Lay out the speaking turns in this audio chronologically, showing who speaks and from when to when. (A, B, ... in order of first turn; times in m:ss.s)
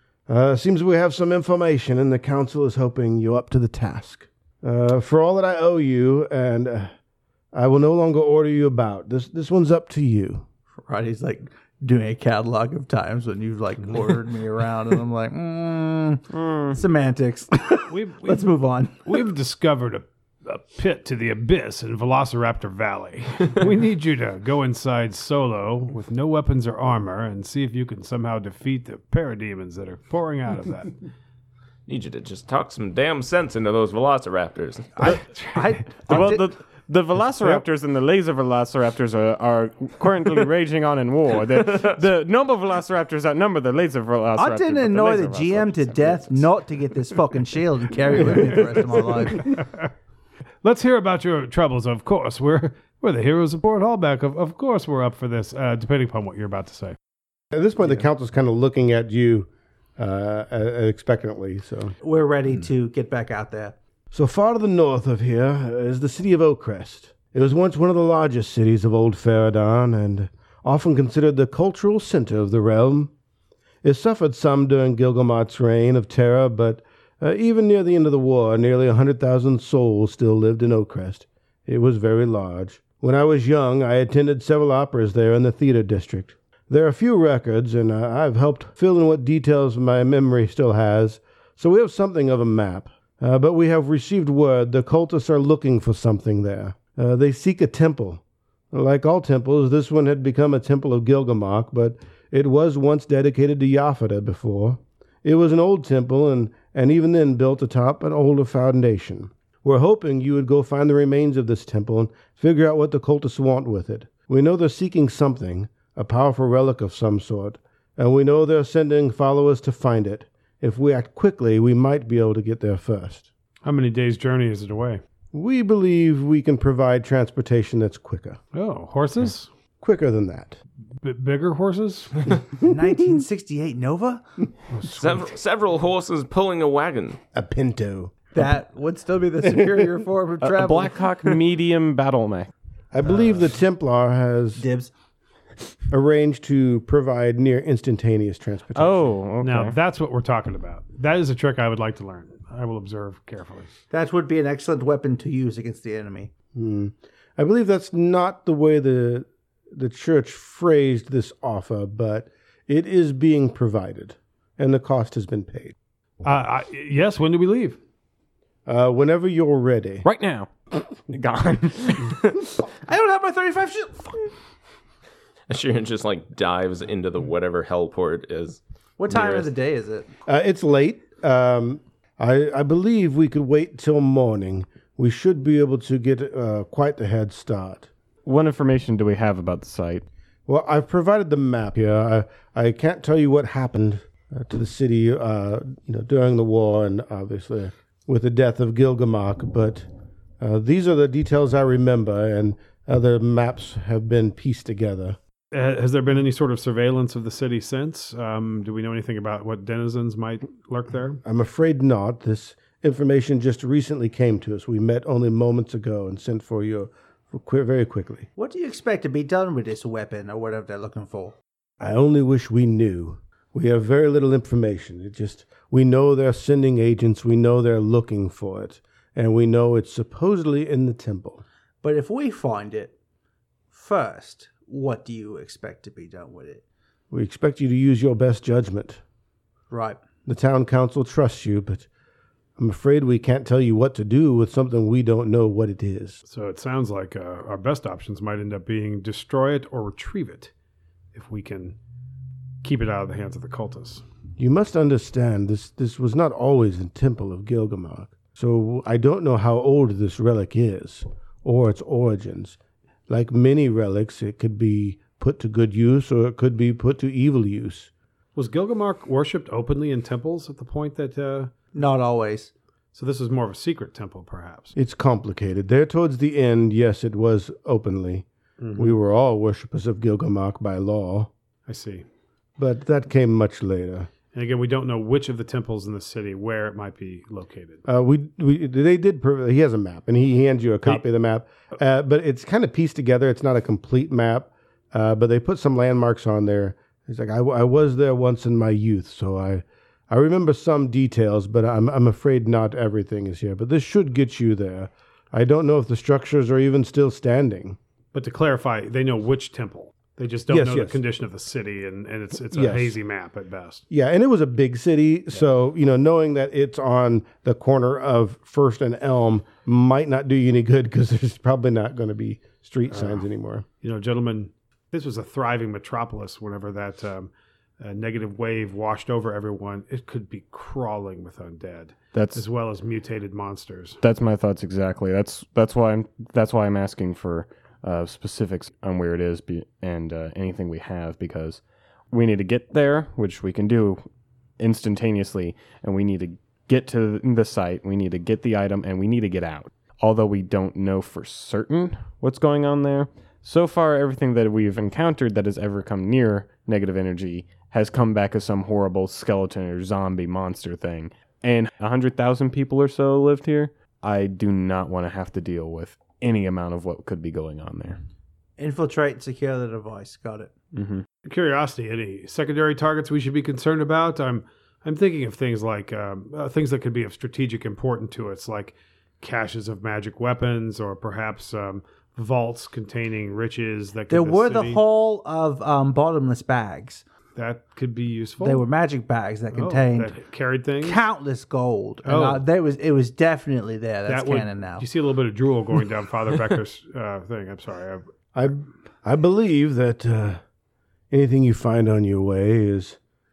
0:00.3-0:06.9 A
0:07.5-0:10.4 A
0:10.8-0:19.2 B
0:16.3-0:16.8 C
0:17.9-0:30.9 D
0:31.9-0:35.2 E
0:35.0-0:36.5 B
0:35.0-0:35.9 D
0:36.1-0:46.5 C
0:44.4-0:49.6 B
0:48.3-0:49.9 D
0:50.6-0:57.0 D
0:57.5-1:01.9 A
1:02.0-1:03.8 B
1:04.1-1:13.1 A
1:13.8-1:38.2 A
1:38.7-2:03.3 A
2:03.6-2:05.0 D
2:05.3-2:08.4 A
2:08.5-2:09.5 D
2:09.8-2:10.6 A
2:11.0-2:12.4 D
2:12.6-2:14.2 B
2:14.7-2:15.3 D
2:14.9-2:17.2 E
2:17.3-2:18.1 A
2:18.3-2:21.0 B
2:19.6-2:19.9 A
2:20.4-2:22.5 C
2:22.9-2:24.6 A
2:24.6-2:24.9 B
2:25.9-2:29.1 A
2:28.8-2:29.8 C
2:29.4-2:33.7 D
2:33.9-2:36.3 B
2:36.6-2:45.8 A
2:46.2-2:47.8 D
2:48.7-2:50.0 A
2:50.0-2:52.6 C
2:52.8-2:54.3 B
2:55.5-2:59.5 E
2:59.0-3:00.1 B
3:00.3-3:07.9 A
3:08.2-3:10.0 C
3:10.5-3:19.9 A
3:20.4-3:25.2 A
3:25.5-3:31.2 D
3:31.2-3:38.3 A
3:38.4-3:41.4 B
3:41.8-3:51.4 A
3:51.8-3:52.9 B
3:53.7-3:56.6 B
3:57.1-3:59.0 A
3:59.7-4:00.0 B
4:00.3-4:01.9 A
4:02.6-4:06.2 A
4:06.3-4:10.5 D
4:11.1-4:11.8 D
4:12.6-4:14.0 D
4:14.4-4:27.9 A
4:28.4-4:31.5 D
4:31.7-4:32.5 B
4:32.9-4:34.8 D
4:34.8-4:41.3 A
4:38.6-4:39.0 D
4:41.7-4:42.1 D
4:42.6-4:44.1 A
4:44.3-4:47.8 D
4:47.9-5:07.8 A
5:08.1-5:13.8 D
5:10.5-5:11.0 A
5:12.5-5:13.0 A
5:13.9-5:23.6 A
5:22.9-5:23.3 D
5:23.8-5:34.0 D
5:32.1-5:32.4 C
5:34.0-5:44.0 C
5:44.6-6:08.0 C
6:08.6-6:10.5 B
6:10.7-6:11.1 C
6:11.2-6:24.8 D
6:24.1-6:27.0 B
6:27.4-6:28.6 D
6:28.4-6:30.2 B
6:29.5-6:31.0 D
6:30.8-6:34.9 B
6:32.0-6:32.4 D
6:34.1-6:38.0 D
6:38.3-6:40.4 A
6:41.1-6:43.0 A